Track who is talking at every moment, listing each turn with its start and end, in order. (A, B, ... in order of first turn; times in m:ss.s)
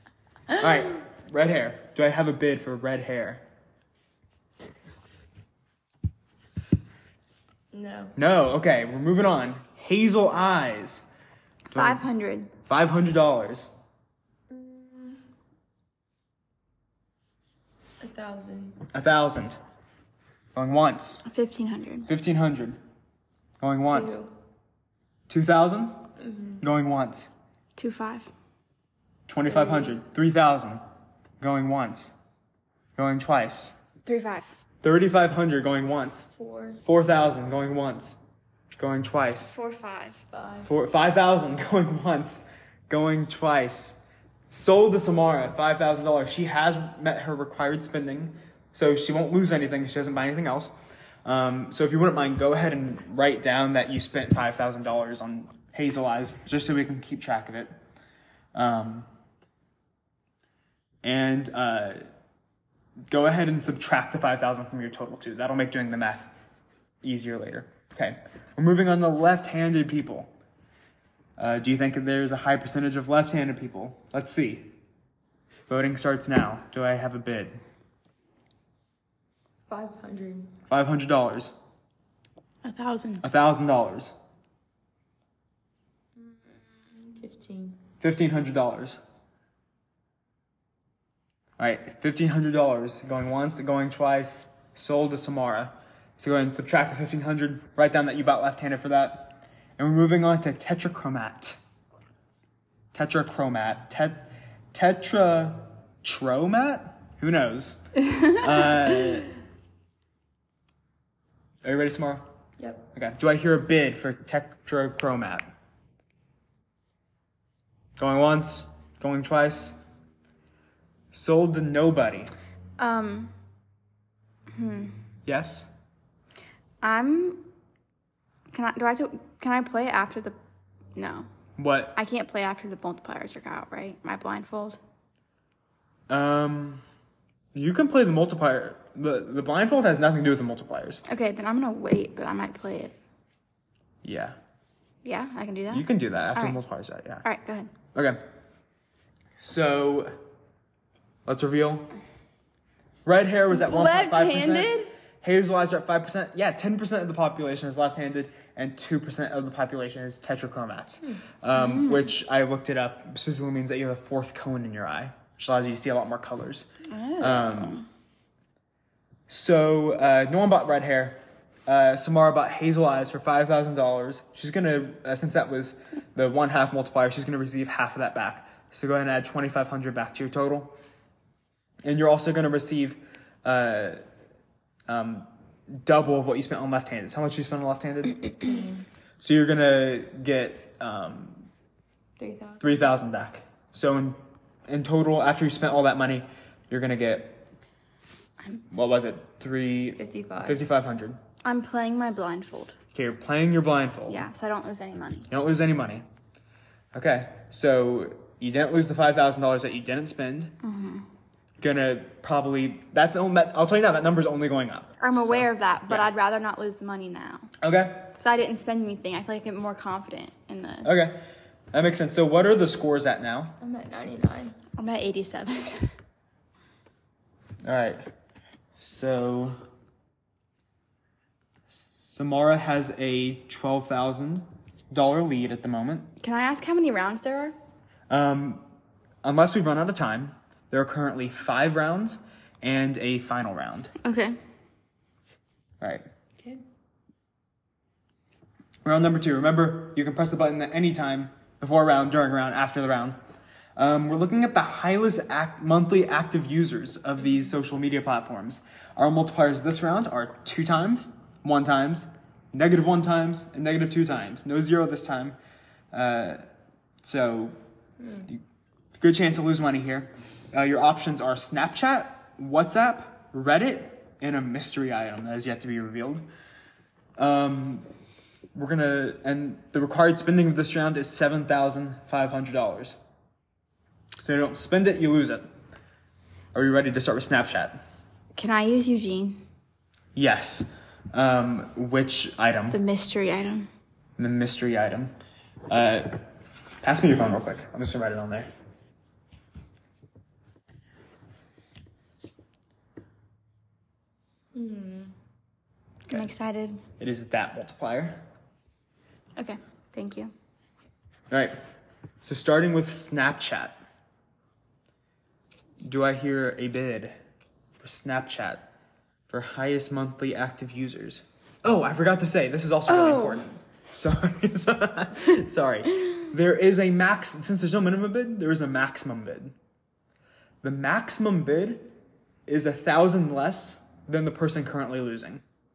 0:00.5-0:03.4 A
0:07.7-0:08.1 B
0:08.2-0:11.0 A
0:11.7-0:12.5 C
0:11.7-0:12.1 A
0:12.6-0:13.7 A
0:14.5-0:15.2 B
0:18.0-0:18.8 B
0:18.9-0:19.6 A
0:20.6-0:21.2 A
0:21.2-0:22.1 C
0:22.1-0:22.8 A
0:23.6-0:24.1 A
0:23.9-0:24.3 B
0:25.3-0:26.1 A
0:26.2-0:26.6 B
0:26.6-0:27.3 A
0:27.8-0:28.3 C
0:29.3-0:30.8 A
0:29.5-0:30.0 B
0:31.4-0:32.1 A
0:33.0-0:33.7 A
0:34.0-0:34.6 C
0:34.8-0:36.3 A
0:36.3-0:36.8 B
0:36.8-0:38.2 A
0:38.8-0:39.6 A
0:39.5-0:40.2 C
0:40.3-0:40.7 B
0:40.6-0:44.0 A
0:44.5-0:50.7 A
0:51.2-0:57.7 A
0:58.5-0:59.1 A
1:01.0-1:02.0 A
1:03.1-1:06.3 A
1:07.0-1:10.3 A
1:11.4-1:14.8 A
1:15.7-1:17.6 A
1:19.7-1:20.6 B
1:20.7-1:21.5 A
1:22.6-1:23.2 C
1:23.2-1:24.2 A
1:27.0-1:27.8 B
1:28.0-1:29.0 A
1:31.6-1:41.6 A
1:42.9-1:49.3 A
1:51.6-1:52.2 A
1:52.6-1:52.8 B
1:52.9-1:55.5 A
1:58.0-1:59.8 A
2:01.1-2:02.3 A
2:02.8-2:03.3 C
2:04.5-2:05.0 C
2:05.2-2:05.7 A
2:06.8-2:07.5 C
2:08.5-2:10.4 C
2:11.0-2:11.3 C
2:11.6-2:12.0 A
2:12.0-2:14.8 C
2:16.1-2:16.8 A
2:17.5-2:21.0 A
2:21.1-2:23.0 C
2:24.0-2:24.4 A
2:25.0-2:26.6 C
2:25.7-2:27.2 A
2:27.2-2:27.7 C
2:27.9-2:28.2 A
2:29.4-2:30.2 A
2:31.2-2:31.9 A
2:33.1-2:47.8 A
2:33.5-2:34.9 C
2:41.5-2:42.1 C
2:46.9-2:47.9 C
2:49.3-3:00.8 A
3:01.8-3:04.0 A
3:04.9-3:08.2 A
3:08.4-3:08.9 B
3:09.2-3:11.5 A
3:12.2-3:12.9 B
3:12.6-3:17.4 A
3:18.7-3:21.2 A
3:20.0-3:20.6 B
3:21.4-3:22.8 C
3:22.9-3:24.3 A
3:24.1-3:25.3 C
3:25.3-3:26.0 A
3:26.9-3:30.6 A
3:30.6-3:31.1 C
3:31.6-3:36.1 A
3:35.0-3:37.5 C
3:37.6-3:38.2 A
3:38.2-3:40.9 C
3:40.8-3:43.6 A
3:43.6-3:44.6 B
3:44.8-3:45.9 C
3:47.6-3:48.1 A
3:48.8-3:49.6 A
3:51.7-3:56.1 A
3:56.2-3:57.6 C
3:58.1-3:58.6 A
3:59.2-4:03.9 A
4:04.0-4:04.4 C
4:05.8-4:06.1 A
4:08.8-4:13.2 A
4:13.8-4:25.4 A
4:25.9-4:26.4 A
4:27.0-4:27.6 A
4:28.0-4:28.3 B
4:29.0-4:36.3 A
4:37.2-4:37.9 A
4:38.6-4:43.0 A
4:44.2-4:45.5 A
4:46.5-4:47.8 A
4:48.4-4:49.4 C
4:50.1-4:52.8 A
4:52.7-4:53.7 C
4:54.2-4:55.1 A
4:55.7-4:56.2 A
4:56.8-4:58.5 A
5:04.5-5:05.1 B
5:06.1-5:06.8 C
5:07.0-5:08.2 A
5:09.4-5:10.3 C
5:11.3-5:11.6 A
5:12.2-5:13.8 A
5:15.8-5:17.2 A
5:17.8-5:18.7 A
5:19.3-5:29.6 A
5:22.9-5:23.5 C
5:30.6-5:31.9 A
5:32.5-5:35.4 A